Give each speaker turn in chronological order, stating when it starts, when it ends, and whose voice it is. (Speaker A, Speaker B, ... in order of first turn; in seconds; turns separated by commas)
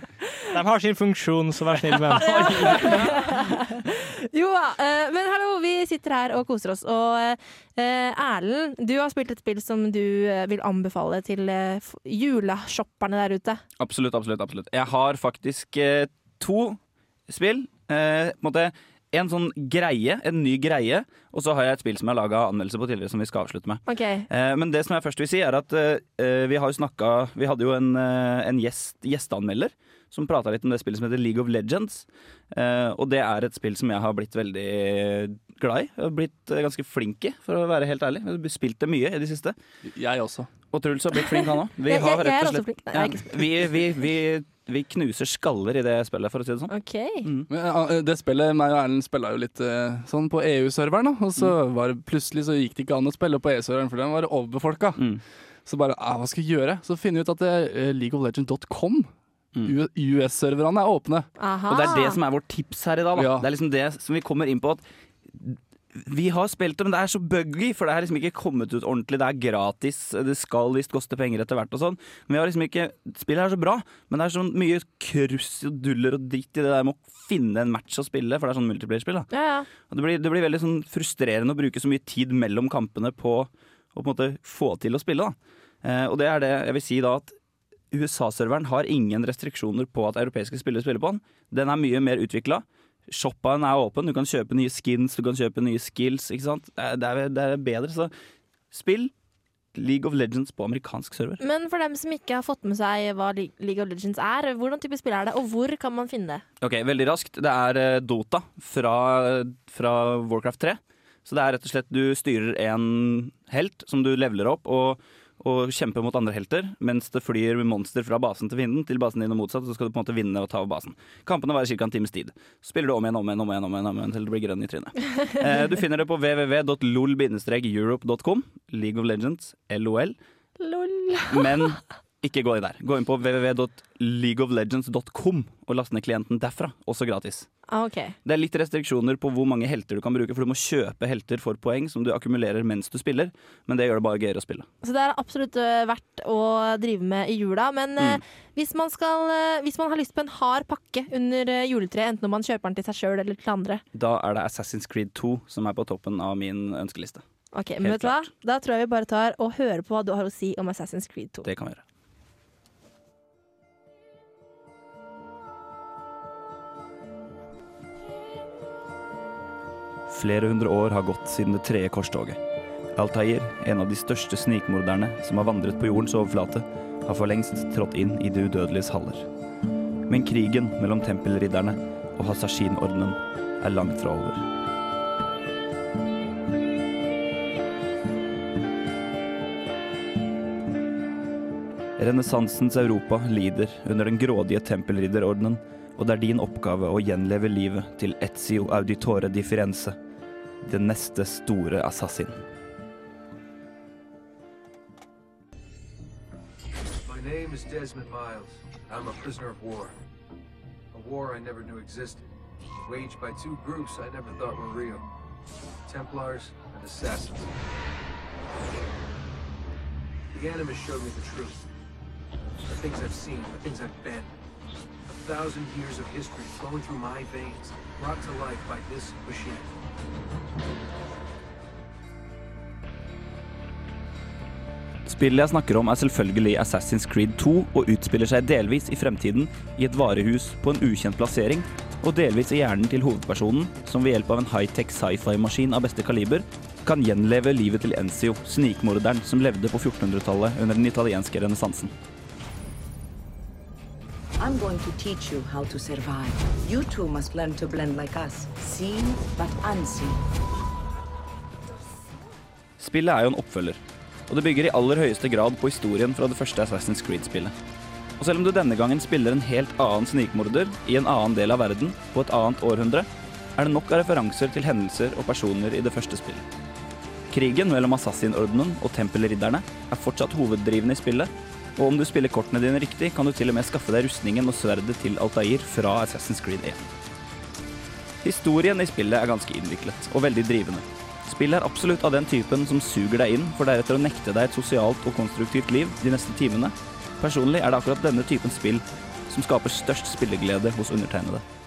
Speaker A: 0.5-3.6, Speaker B: 2.1-13.6, Speaker C: 13.8-39.5, Speaker B: 23.9-24.3, Speaker D: 39.8-40.5, Speaker C: 40.7-47.5, Speaker B: 41.3-43.5, Speaker B: 46.7-47.3, Speaker D: 47.5-61.3, Speaker C: 55.0-55.2, Speaker B: 61.4-62.2, Speaker C: 61.7-79.3, Speaker D: 63.1-63.5, Speaker B: 79.3-79.7, Speaker C: 79.9-87.4, Speaker C: 87.9-98.1, Speaker C: 98.7-99.1, Speaker C: 99.7-101.4, Speaker B: 101.4-106.4, Speaker C: 106.6-130.2, Speaker B: 130.6-131.6, Speaker C: 131.3-137.5, Speaker B: 137.7-138.1, Speaker C: 138.2-144.7, Speaker B: 144.8-153.8, Speaker C: 153.9-157.2, Speaker B: 157.5-161.5, Speaker C: 157.8-158.3, Speaker C: 161.4-161.8, Speaker C: 170.1-172.4, Speaker C: 172.9-179.3, Speaker C: 180.1-184.4, Speaker C: 192.0-200.0, Speaker C: 200.6-202.4, Speaker E: 207.0-209.9, Speaker E: 210.9-212.2, Speaker E: 212.8-215.0, Speaker E: 215.8-217.5, Speaker E: 220.3-221.6, Speaker E: 222.7-224.3, Speaker E: 225.1-229.7, Speaker C: 235.1-251.9, Speaker F: 254.4-260.2, Speaker C: 262.8-267.5, Speaker C: 268.2-276.4, Speaker C: 277.3-286.8, Speaker C: 288.2-301.4